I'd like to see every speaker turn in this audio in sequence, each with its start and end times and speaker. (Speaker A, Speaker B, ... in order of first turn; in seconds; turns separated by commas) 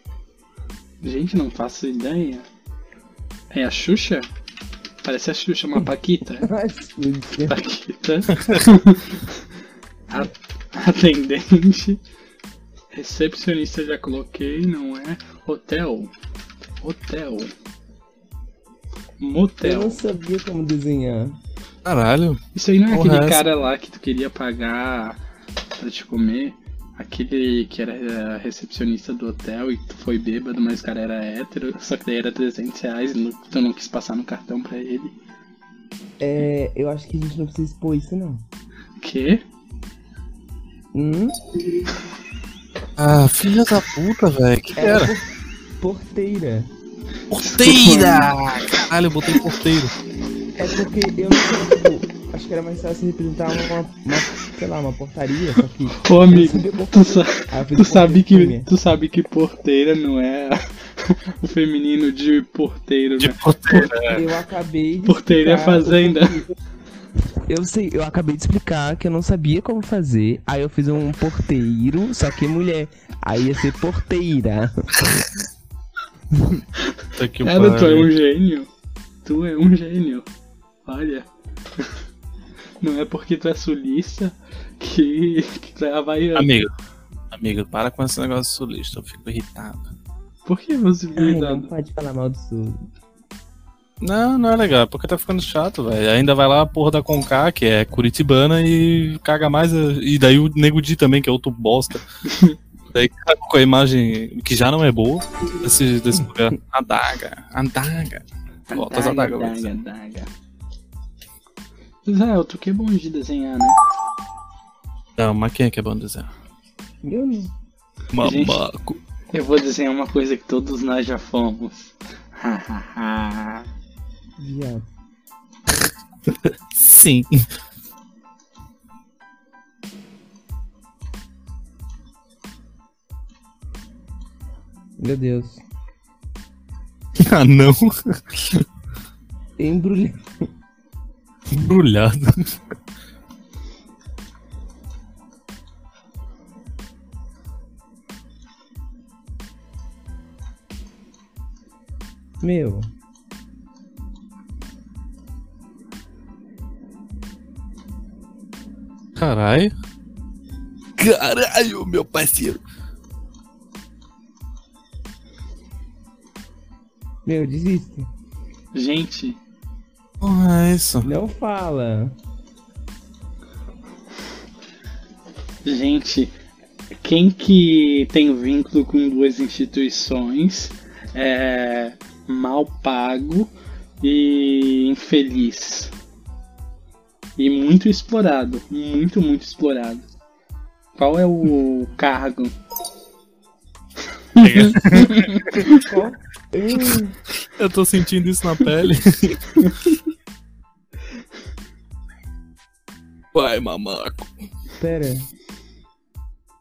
Speaker A: 1.0-2.4, Speaker A: 3.5-4.3, Speaker A: 5.0-6.5, Speaker B: 6.4-7.6, Speaker A: 7.5-9.4, Speaker A: 10.1-12.0, Speaker A: 12.9-16.1, Speaker A: 16.8-17.5, Speaker A: 19.2-20.0, Speaker B: 19.6-21.4, Speaker C: 21.8-23.4, Speaker A: 22.5-25.2, Speaker A: 25.8-35.1, Speaker B: 36.2-38.4, Speaker A: 39.0-39.4, Speaker B: 40.9-41.4, Speaker C: 43.0-45.1, Speaker B: 44.8-45.3, Speaker B: 45.8-46.7, Speaker C: 47.3-49.9, Speaker A: 47.4-48.8, Speaker B: 50.6-58.7, Speaker A: 56.0-63.9, Speaker C: 63.2-64.2, Speaker B: 64.1-66.4, Speaker A: 65.0-66.4, Speaker B: 67.5-74.9, Speaker B: 76.3-76.6, Speaker A: 76.8-78.7, Speaker C: 77.2-78.1, Speaker A: 79.2-80.3, Speaker A: 80.8-81.3, Speaker A: 82.8-86.5, Speaker C: 86.3-86.7, Speaker C: 87.3-89.9, Speaker A: 90.5-91.7, Speaker B: 91.2-92.8, Speaker C: 94.0-102.0, Speaker A: 102.2-102.5, Speaker C: 102.9-109.7, Speaker A: 108.7-110.3, Speaker A: 112.0-113.8, Speaker C: 115.2-116.3, Speaker B: 117.0-117.5, Speaker C: 118.1-119.0, Speaker A: 118.2-118.6, Speaker A: 119.3-123.7, Speaker B: 124.4-124.8, Speaker C: 126.3-127.5, Speaker B: 135.0-135.6, Speaker C: 137.2-138.6, Speaker B: 139.6-140.3, Speaker C: 141.5-142.5, Speaker B: 152.4-152.9, Speaker C: 159.2-159.7, Speaker C: 161.0-162.6, Speaker B: 167.2-168.1, Speaker A: 168.7-169.4, Speaker C: 170.2-171.1, Speaker B: 171.0-172.1, Speaker A: 175.6-176.3, Speaker A: 177.0-185.9, Speaker A: 187.4-190.0, Speaker A: 190.9-192.5, Speaker A: 194.4-195.8, Speaker C: 194.4-195.7, Speaker B: 195.7-197.2, Speaker C: 197.4-199.7, Speaker C: 203.3-204.3, Speaker B: 204.8-205.3